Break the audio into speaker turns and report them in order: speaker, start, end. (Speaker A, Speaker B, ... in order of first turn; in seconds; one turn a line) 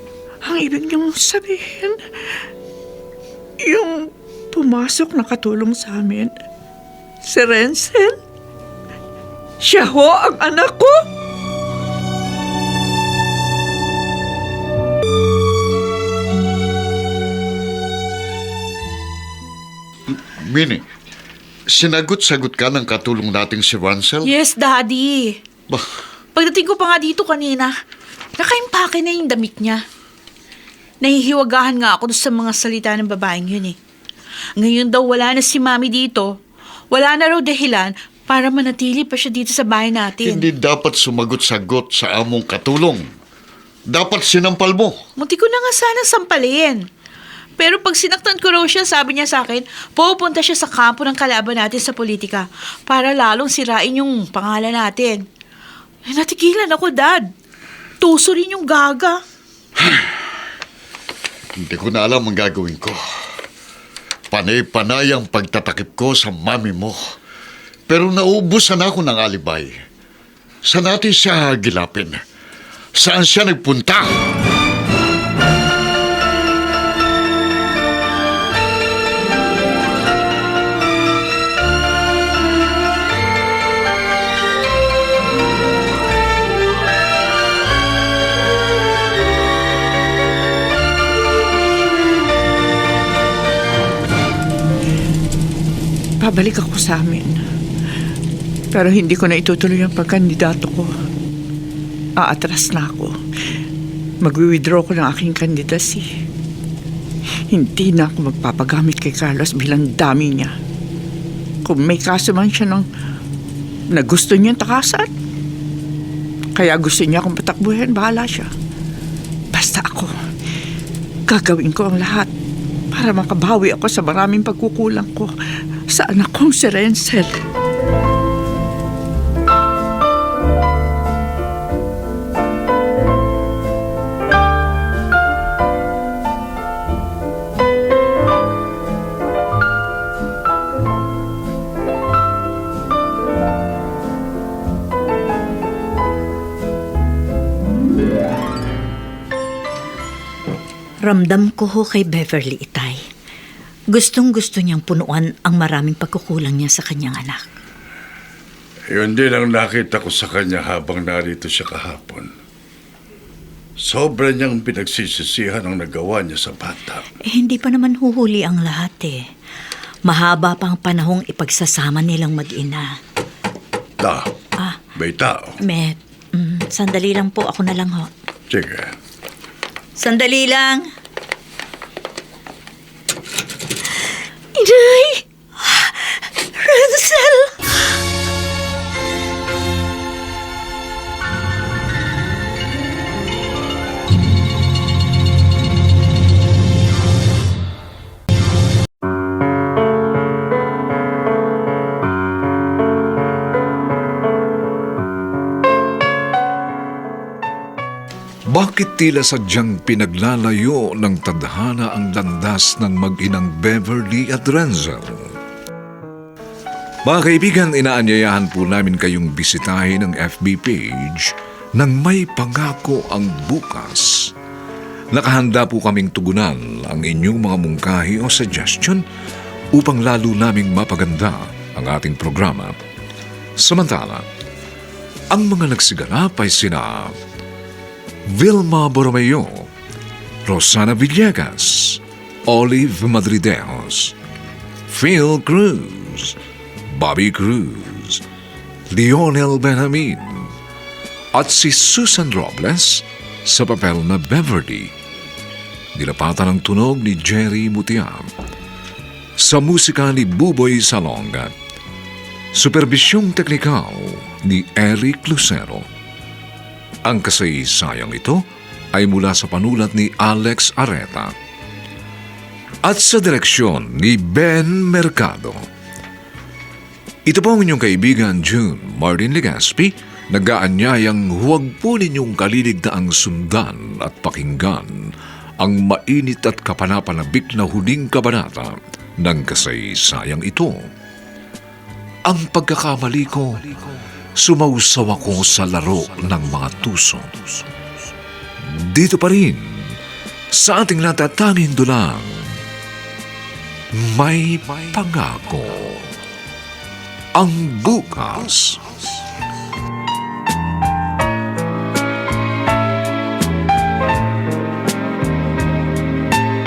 Speaker A: 0.4-1.9
Speaker A: 3.6-6.3
Speaker A: 7.2-8.2
Speaker A: 9.6-11.0
Speaker B: 20.3-20.8
Speaker B: 21.7-24.3
Speaker C: 24.2-25.4
Speaker C: 26.4-27.7
Speaker C: 28.4-29.8
Speaker C: 31.0-33.8
Speaker C: 34.6-36.4
Speaker C: 36.9-40.5
Speaker B: 40.2-43.1
Speaker B: 43.9-45.0
Speaker C: 45.2-46.9
Speaker C: 47.6-55.2
Speaker C: 56.1-57.3
Speaker C: 58.0-59.2
Speaker B: 61.6-63.0
Speaker B: 64.3-67.0
Speaker B: 67.9-69.7
Speaker B: 70.7-72.2
Speaker B: 73.0-74.2
Speaker A: 96.2-97.4
Speaker A: 98.7-100.9
Speaker A: 102.2-103.1
Speaker A: 104.2-106.1
Speaker A: 107.5-110.5
Speaker A: 111.7-112.9
Speaker A: 113.9-115.1
Speaker A: 116.6-118.5
Speaker A: 119.5-120.1
Speaker A: 121.3-122.3
Speaker A: 122.9-125.3
Speaker A: 125.9-127.3
Speaker D: 151.0-153.0
Speaker D: 153.9-157.4
Speaker E: 158.9-162.3
Speaker E: 163.8-167.0
Speaker D: 167.3-169.2
Speaker D: 170.1-172.9
Speaker E: 175.0-175.4
Speaker D: 175.6-178.1
Speaker E: 178.5-178.9
Speaker D: 180.0-180.8
Speaker D: 184.6-185.9
Speaker D: 186.6-187.6
Speaker F: 208.5-215.3
Speaker F: 217.1-224.3
Speaker F: 225.1-229.0
Speaker F: 229.7-232.7
Speaker F: 233.6-234.3
Speaker F: 235.3-237.2
Speaker F: 238.3-239.7
Speaker F: 240.5-244.1
Speaker F: 244.9-246.4
Speaker F: 246.9-248.2
Speaker F: 248.9-250.5
Speaker F: 251.3-254.9
Speaker F: 255.9-258.3
Speaker F: 259.4-261.5
Speaker F: 262.5-265.9
Speaker F: 267.1-271.3
Speaker F: 272.8-275.6
Speaker F: 277.3-290.8
Speaker F: 292.3-293.6
Speaker F: 294.4-297.3
Speaker F: 298.7-300.0
Speaker F: 300.5-302.5
Speaker F: 304.0-306.1
Speaker F: 307.4-308.8